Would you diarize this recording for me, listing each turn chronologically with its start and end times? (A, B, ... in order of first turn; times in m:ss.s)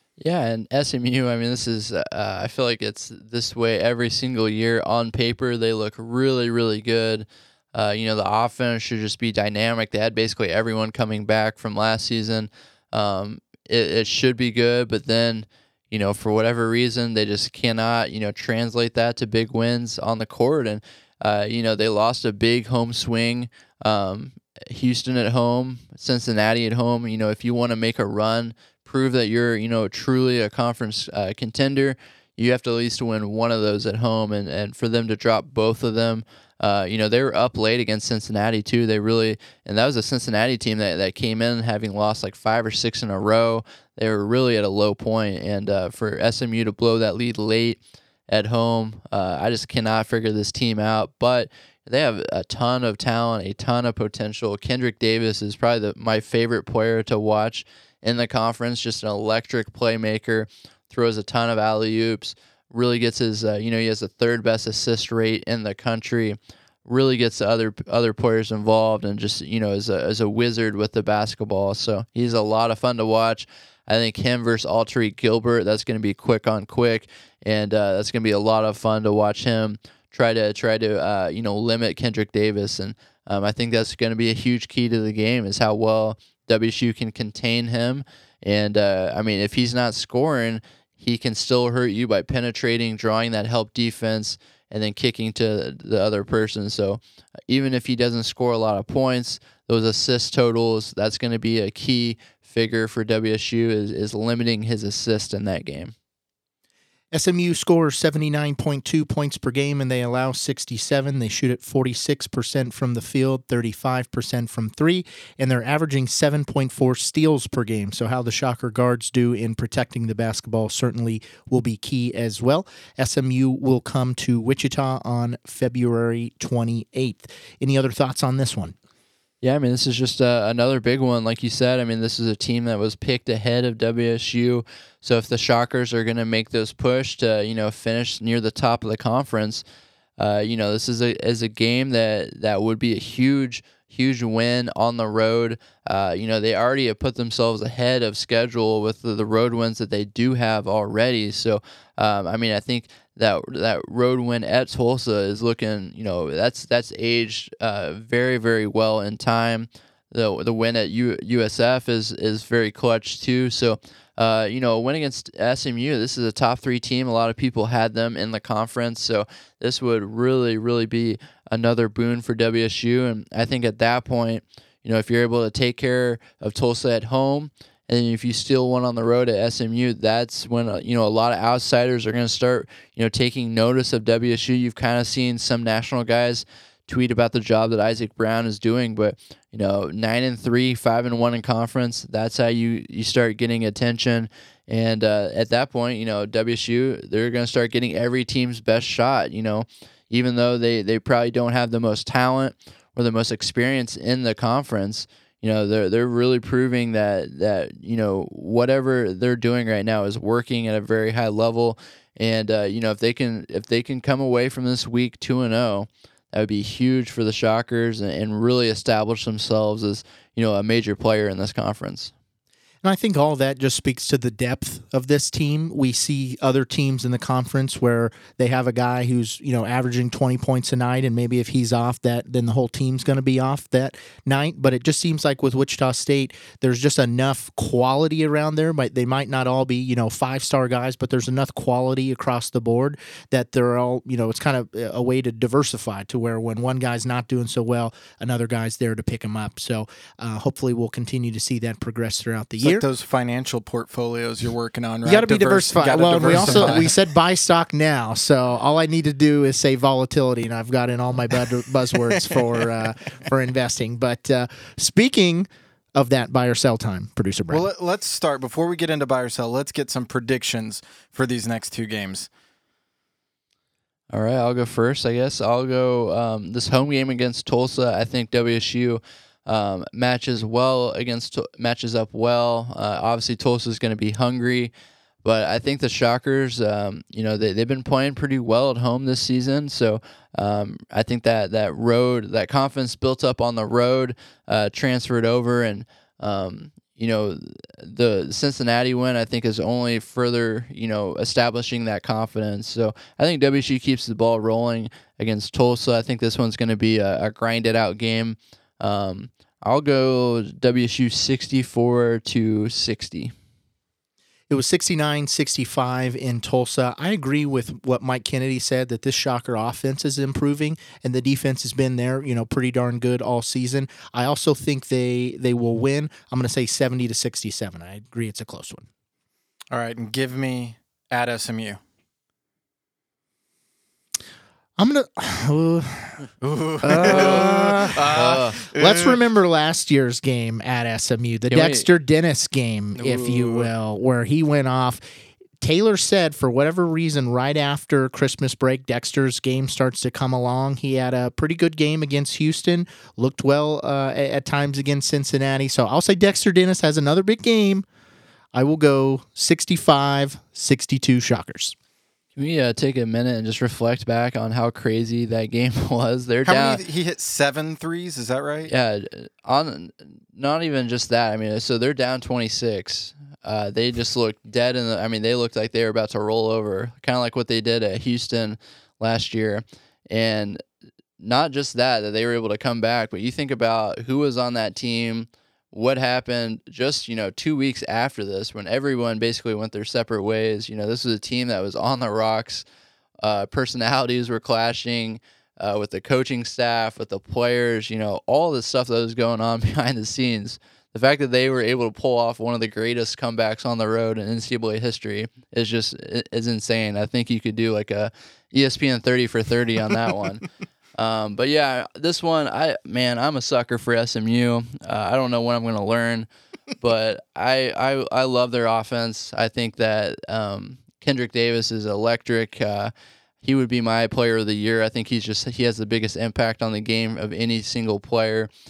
0:00.2-1:45.9 A
1:47.1-2:08.7 B
2:09.4-2:19.6 A
2:20.2-3:42.1 A
3:42.8-4:12.8 B
4:12.6-4:16.9 C
4:15.0-4:27.6 B
4:27.5-4:32.3 C
4:34.1-4:44.7 A
4:45.2-5:13.3 A
5:14.5-5:28.9 B
5:29.7-5:31.8 C
5:34.8-5:36.2 B
5:36.4-5:39.2 C
5:36.8-5:38.2 B
5:37.0-5:38.6 A
5:38.7-5:45.0 B
5:41.5-5:41.8 A
5:42.9-5:43.7 C
5:45.6-5:57.8 B
5:58.5-6:01.8 B
6:02.4-6:06.8 A
6:06.4-6:08.7 C
6:08.7-6:20.6 A
6:21.2-6:32.6 A
6:33.2-6:56.3 A
6:56.8-7:02.9 A
7:03.4-7:08.5 A